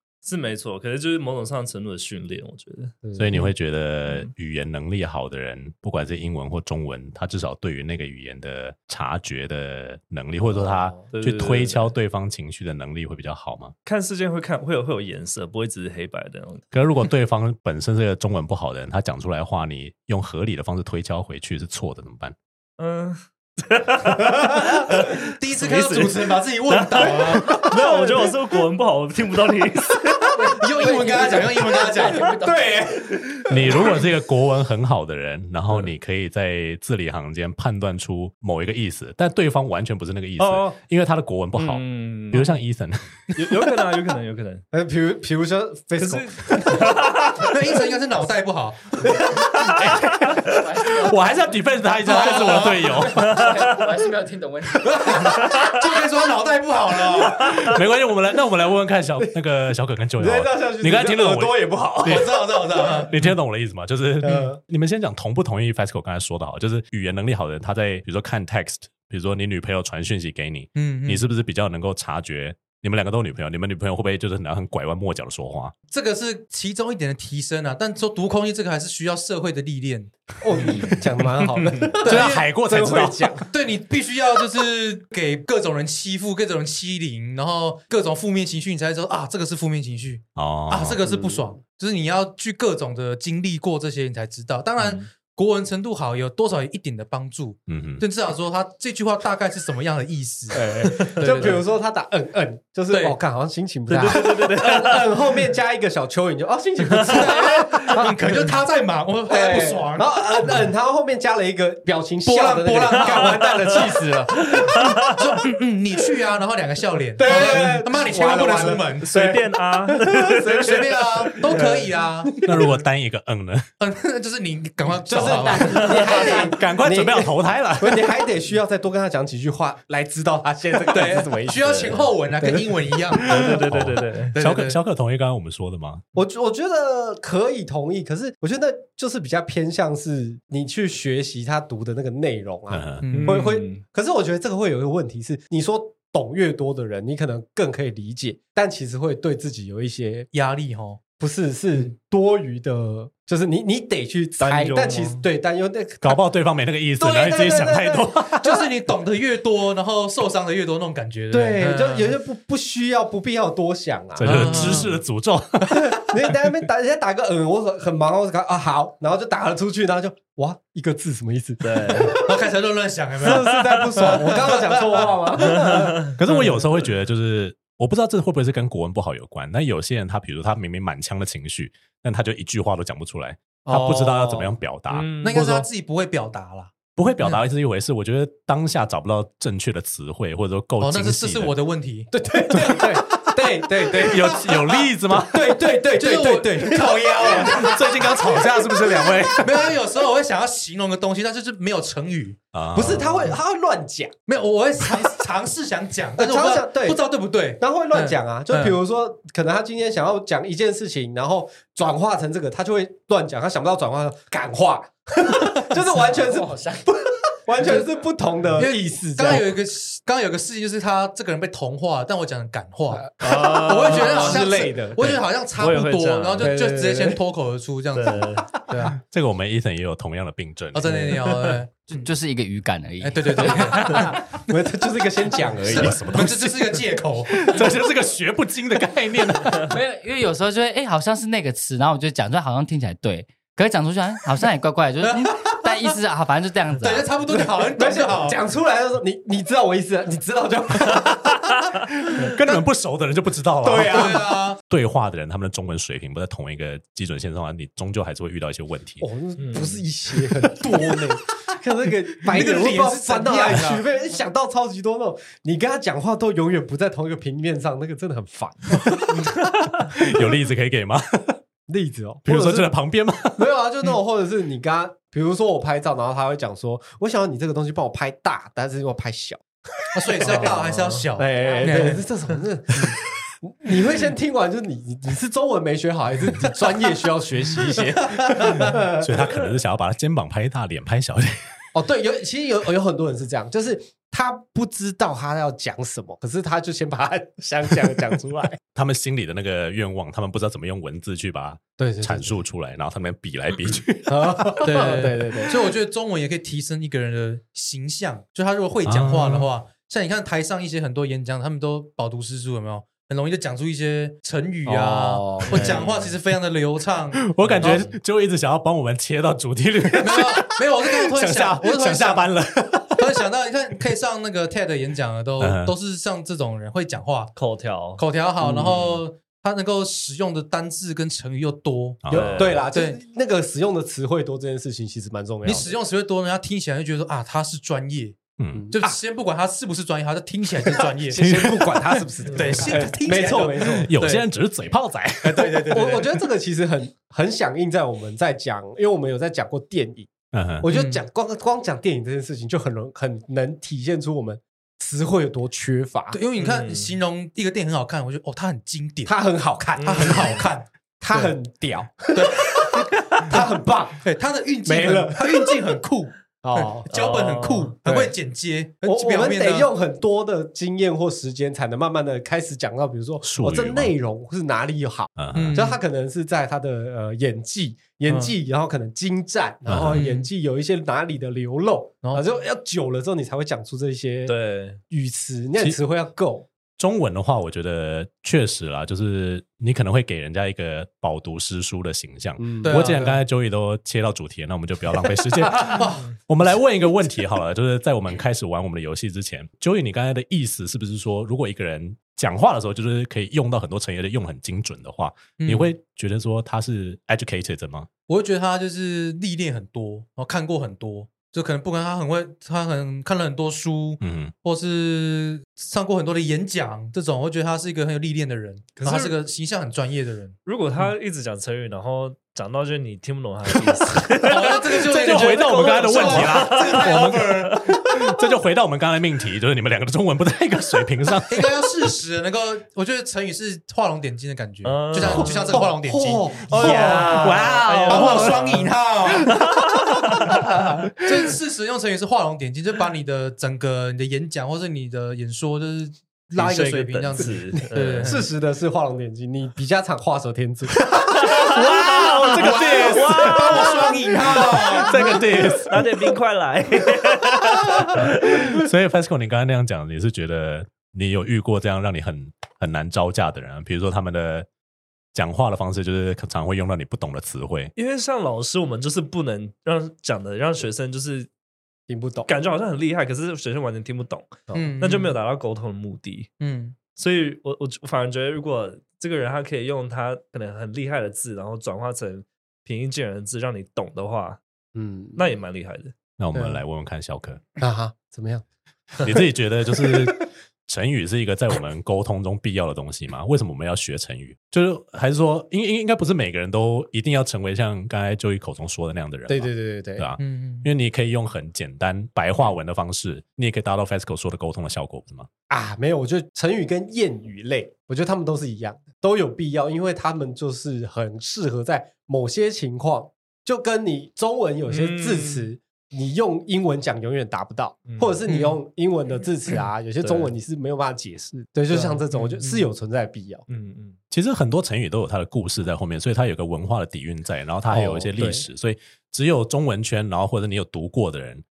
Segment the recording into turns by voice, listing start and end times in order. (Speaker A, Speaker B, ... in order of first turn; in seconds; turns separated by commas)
Speaker A: 0.2-3.5, Speaker B: 3.0-3.4, Speaker C: 3.2-13.7, Speaker B: 10.4-11.1, Speaker A: 11.1-11.9, Speaker A: 13.8-16.7, Speaker C: 16.7-22.4, Speaker A: 22.8-30.3, Speaker D: 25.2-27.8, Speaker E: 30.3-32.6, Speaker D: 30.6-32.4, Speaker B: 31.0-31.6, Speaker B: 32.2-34.0, Speaker C: 33.5-43.5, Speaker A: 40.4-40.8, Speaker A: 41.5-42.6, Speaker A: 43.4-44.6, Speaker B: 44.7-46.9, Speaker A: 46.0-47.5, Speaker D: 47.4-49.1, Speaker B: 49.0-49.9, Speaker C: 49.6-53.5, Speaker E: 50.5-51.6, Speaker D: 52.0-53.0, Speaker E: 52.1-55.1, Speaker A: 53.1-53.5, Speaker B: 54.9-55.5, Speaker D: 55.1-57.7, Speaker C: 57.3-75.7, Speaker B: 60.2-63.1, Speaker D: 62.1-63.1, Speaker B: 64.2-64.6, Speaker D: 70.8-71.2, Speaker D: 75.9-82.5, Speaker B: 80.4-83.5, Speaker A: 80.7-81.0, Speaker A: 81.6-81.9, Speaker C: 82.0-83.3, Speaker D: 83.5-101.6, Speaker C: 90.3-91.0, Speaker B: 91.0-91.6, Speaker A: 94.8-95.0, Speaker C: 97.7-98.0, Speaker B: 100.5-108.5, Speaker A: 100.9-101.5, Speaker D: 102.9-103.2, Speaker A: 103.9-105.2, Speaker A: 106.8-107.8, Speaker D: 107.0-110.1, Speaker B: 109.3-114.7, Speaker D: 112.2-114.1, Speaker A: 113.1-113.4, Speaker A: 114.4-115.2, Speaker D: 114.7-119.2, Speaker B: 117.2-122.8, Speaker A: 117.2-117.8, Speaker A: 119.0-121.6, Speaker D: 120.6-122.4, Speaker C: 122.4-123.7, Speaker D: 123.8-126.5, Speaker B: 125.0-133.4, Speaker A: 125.5-126.4, Speaker C: 125.7-128.2, Speaker D: 130.9-133.4, Speaker A: 131.6-132.0, Speaker C: 133.2-136.0, Speaker A: 133.2-134.3, Speaker D: 134.3-134.8, Speaker B: 136.1-150.3, Speaker C: 142.7-143.1, Speaker D: 143.0-143.6, Speaker A: 143.1-143.8, Speaker D: 150.3-151.0, Speaker B: 151.2-156.2, Speaker A: 154.4-155.2, Speaker C: 156.0-158.5, Speaker B: 157.0-158.5, Speaker D: 158.4-162.1, Speaker B: 161.3-164.9, Speaker C: 164.2-166.0, Speaker D: 164.2-164.9, Speaker B: 165.7-172.5, Speaker A: 171.6-172.2, Speaker D: 172.1-175.7, Speaker B: 173.2-176.1, Speaker A: 173.4-173.8, Speaker A: 175.4-176.6, Speaker C: 176.1-185.1, Speaker B: 183.6-184.6, Speaker A: 184.9-185.6, Speaker D: 185.2-186.8, Speaker C: 187.0-191.5, Speaker D: 190.8-192.1, Speaker B: 192.1-199.1, Speaker C: 192.6-193.2, Speaker C: 193.8-195.8, Speaker D: 195.9-198.2, Speaker C: 197.4-199.8, Speaker D: 199.4-202.4, Speaker C: 202.5-203.4, Speaker B: 202.7-204.1, Speaker D: 204.3-208.8, Speaker B: 206.2-207.0, Speaker B: 207.6-219.5, Speaker E: 216.3-216.8, Speaker D: 218.6-229.0, Speaker B: 222.9-225.2, Speaker A: 223.2-224.5, Speaker A: 225.6-226.6, Speaker B: 226.4-227.2, Speaker A: 227.9-228.6, Speaker C: 228.8-231.1, Speaker D: 230.7-232.1, Speaker B: 230.9-231.2, Speaker E: 231.9-234.2, Speaker D: 233.0-234.2, Speaker B: 233.5-236.5, Speaker D: 235.7-237.5, Speaker C: 235.7-236.6, Speaker C: 237.3-239.8, Speaker E: 239.6-247.1, Speaker D: 245.0-245.7, Speaker D: 246.8-248.4, Speaker B: 247.3-251.5, Speaker C: 252.1-259.1, Speaker B: 253.6-254.2, Speaker D: 253.8-254.6, Speaker B: 259.0-269.4, Speaker A: 259.4-259.8, Speaker D: 262.2-263.8, Speaker C: 268.9-271.4, Speaker B: 271.7-272.7, Speaker C: 272.2-273.5, Speaker B: 273.4-279.4, Speaker D: 279.9-282.1, Speaker B: 280.1-289.3, Speaker A: 280.7-281.0, Speaker D: 288.0-288.8, Speaker C: 288.6-291.6, Speaker B: 291.7-298.6, Speaker C: 298.7-305.4, Speaker B: 301.8-302.4, Speaker B: 304.1-305.6, Speaker D: 304.6-317.9, Speaker C: 308.9-309.5, Speaker B: 314.6-315.8, Speaker A: 315.4-316.1, Speaker C: 317.2-323.2, Speaker A: 317.4-317.8, Speaker D: 320.0-322.3, Speaker D: 323.0-327.3, Speaker C: 325.4-325.7, Speaker A: 327.4-328.0, Speaker D: 328.0-332.0, Speaker B: 328.4-329.0, Speaker C: 332.0-332.6, Speaker A: 332.1-332.6, Speaker B: 332.1-335.7, Speaker D: 332.7-333.0, Speaker D: 335.4-341.2, Speaker C: 338.4-338.7, Speaker B: 338.5-338.9, Speaker B: 340.7-343.9, Speaker C: 341.2-341.5, Speaker D: 342.3-344.2, Speaker C: 343.9-345.8, Speaker D: 345.2-346.1, Speaker B: 345.6-356.2, Speaker C: 350.3-350.7, Speaker D: 350.6-351.0, Speaker D: 356.1-359.1, Speaker A: 356.4-357.0, Speaker B: 359.1-360.4, Speaker A: 359.8-360.4, Speaker D: 359.8-361.3, Speaker B: 361.0-364.0, Speaker D: 362.1-363.4, Speaker D: 364.0-369.7, Speaker B: 364.6-365.6, Speaker B: 366.4-366.9, Speaker A: 366.9-367.8, Speaker B: 367.9-368.1, Speaker B: 368.8-384.3, Speaker C: 373.2-373.9, Speaker C: 375.2-375.6, Speaker D: 375.3-375.8, Speaker D: 378.1-378.3, Speaker C: 379.7-380.1, Speaker D: 379.9-380.3, Speaker A: 384.2-384.8, Speaker B: 384.9-386.5, Speaker C: 386.8-407.9, Speaker B: 392.4-393.1, Speaker D: 392.6-393.2, Speaker D: 395.6-396.1, Speaker D: 405.4-405.7, Speaker D: 408.1-420.4, Speaker C: 414.0-414.3, Speaker A: 418.8-419.2, Speaker A: 420.5-424.9, Speaker D: 424.2-427.8, Speaker C: 424.4-431.7, Speaker A: 425.8-427.3, Speaker D: 431.3-439.3, Speaker A: 434.6-435.7, Speaker C: 435.0-435.4, Speaker B: 435.5-438.5, Speaker C: 436.5-438.6, Speaker A: 436.6-438.7, Speaker A: 439.2-440.3, Speaker B: 440.3-440.7, Speaker D: 441.0-448.2, Speaker A: 446.4-448.1, Speaker B: 447.7-451.3, Speaker C: 450.9-456.2, Speaker A: 451.2-458.4, Speaker D: 452.4-455.2, Speaker C: 457.8-464.5, Speaker C: 465.1-467.7, Speaker A: 467.8-471.3, Speaker B: 471.9-472.3, Speaker A: 472.2-476.3, Speaker D: 474.5-475.1, Speaker D: 476.4-476.8, Speaker A: 476.9-484.4, Speaker B: 484.8-485.2, Speaker A: 485.1-485.9, Speaker C: 486.2-487.4, Speaker B: 486.3-486.6, Speaker B: 487.6-488.4, Speaker B: 489.0-490.1, Speaker C: 489.0-505.3, Speaker B: 499.3-500.1, Speaker D: 500.2-500.7, Speaker B: 505.5-523.5, Speaker A: 514.7-515.5, Speaker A: 517.9-518.2, Speaker D: 518.3-518.6, Speaker A: 520.0-520.3, Speaker D: 521.7-522.7, Speaker A: 523.5-524.0, Speaker C: 524.1-531.4, Speaker B: 527.7-528.5